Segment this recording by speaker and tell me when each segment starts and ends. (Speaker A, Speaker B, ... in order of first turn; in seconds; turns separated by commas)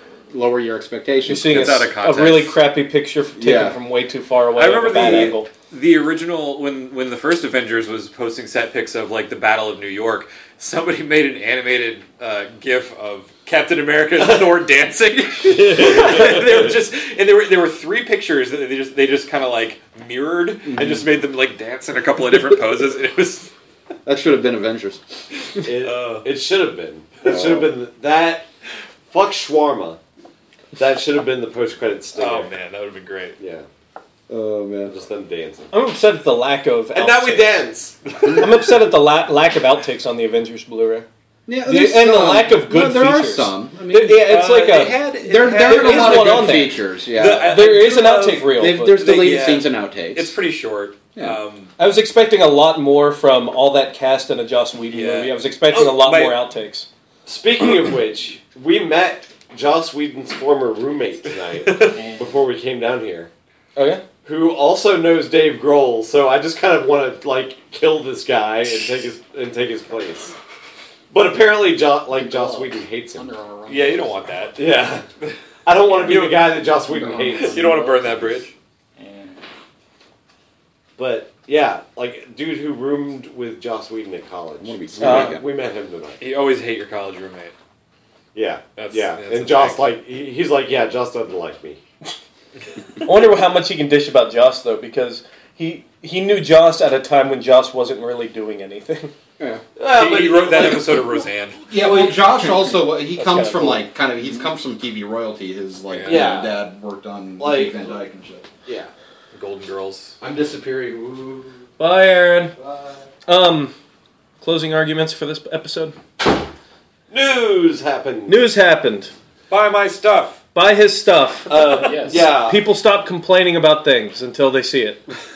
Speaker A: 0.3-1.7, Speaker B: 1.3-5.5, Speaker C: 1.4-2.6, Speaker A: 3.4-3.8, Speaker C: 4.5-23.5, Speaker A: 4.9-5.3, Speaker D: 15.5-16.6, Speaker A: 20.6-21.1, Speaker A: 24.1-25.1, Speaker D: 25.6-28.5, Speaker C: 25.6-26.3, Speaker A: 27.2-27.7, Speaker D: 29.1-30.0, Speaker D: 30.8-32.5, Speaker C: 32.1-33.4, Speaker D: 33.4-33.7, Speaker A: 34.3-35.0, Speaker D: 34.9-35.7, Speaker B: 35.7-37.6, Speaker D: 37.0-38.2, Speaker B: 38.3-41.1, Speaker A: 41.5-44.3, Speaker B: 41.6-46.8, Speaker C: 44.2-51.7, Speaker A: 45.2-47.8, Speaker B: 47.4-49.2, Speaker A: 48.5-50.4, Speaker B: 51.8-56.9, Speaker C: 54.9-56.4, Speaker D: 57.3-63.3, Speaker C: 61.6-62.0, Speaker E: 61.9-62.4, Speaker B: 63.8-64.0, Speaker D: 64.2-70.3, Speaker D: 71.1-73.3, Speaker E: 72.1-74.5, Speaker C: 73.7-74.6, Speaker D: 74.6-75.1, Speaker D: 75.6-77.7, Speaker C: 75.9-76.6, Speaker E: 76.1-78.5, Speaker C: 77.3-78.5, Speaker E: 79.0-79.5, Speaker D: 81.0-86.2, Speaker A: 84.6-85.4, Speaker B: 85.0-85.4, Speaker C: 86.2-87.5, Speaker D: 88.3-91.8, Speaker C: 88.8-89.9, Speaker B: 93.0-99.1, Speaker D: 99.8-101.2, Speaker C: 99.9-101.7, Speaker A: 101.7-108.5, Speaker B: 103.2-103.9, Speaker C: 105.9-106.4, Speaker D: 106.0-106.6, Speaker D: 107.4-108.0, Speaker D: 108.7-108.9, Speaker C: 109.3-110.2, Speaker A: 110.2-111.7, Speaker B: 111.8-112.6, Speaker A: 112.6-113.0, Speaker B: 113.3-113.8, Speaker B: 114.4-116.0, Speaker D: 117.1-118.4, Speaker B: 118.3-119.1, Speaker C: 119.5-120.4, Speaker B: 120.5-125.1, Speaker D: 121.5-122.7, Speaker E: 121.7-122.3